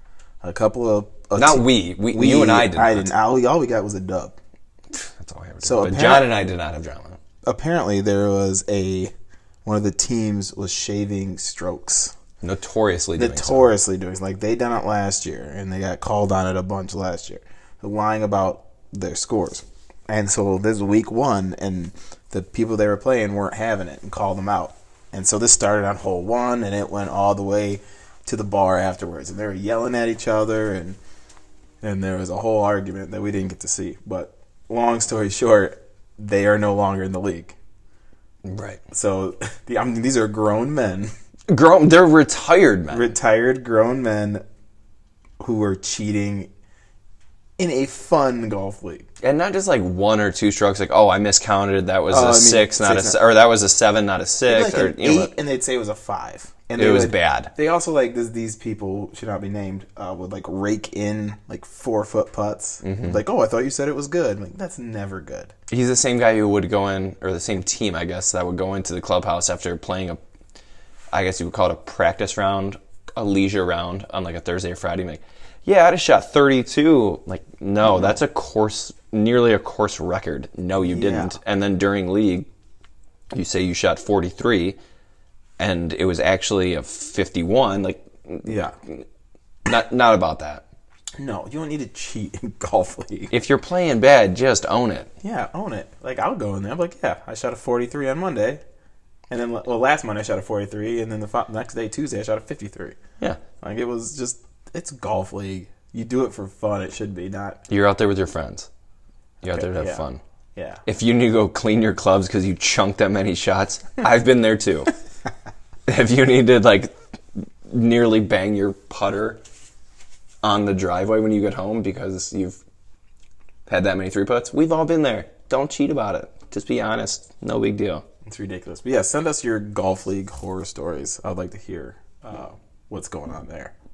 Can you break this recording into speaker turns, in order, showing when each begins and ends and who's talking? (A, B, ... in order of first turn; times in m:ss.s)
0:00.4-0:04.4 A
0:01.4-0:03.1 B
0:04.9-0:07.2 B
0:05.6-0:06.3 A
0:07.4-0:09.1 A
0:09.6-0:12.1 A
0:12.4-0:13.7 B
0:13.2-0:31.0 A
0:31.8-0:37.6 A
0:38.4-0:38.8 B
0:38.9-0:41.1 A
0:41.5-0:43.1 B
0:42.9-0:44.4 A
0:45.4-0:46.5 A
0:47.6-0:49.1 A
0:49.2-0:55.3 B
0:52.1-0:53.2 A
0:54.5-1:05.5 A
0:56.8-0:57.5 B
1:02.8-1:03.2 B
1:05.7-1:10.2 B
1:11.1-1:22.5 B
1:20.8-1:21.4 A
1:23.3-1:24.8 B
1:25.6-1:29.0 B
1:28.4-1:28.8 A
1:29.6-1:30.6 B
1:31.2-1:33.3 A
1:33.3-1:35.1 B
1:35.2-1:38.6 A
1:39.3-1:43.0 A
1:43.6-1:47.6 A
1:47.7-1:48.7 B
1:49.4-1:50.8 A
1:49.4-1:50.2 B
1:50.8-1:55.0 B
1:55.9-1:59.4 B
2:00.4-2:02.6 B
2:03.7-2:08.0 B
2:08.3-2:13.7 A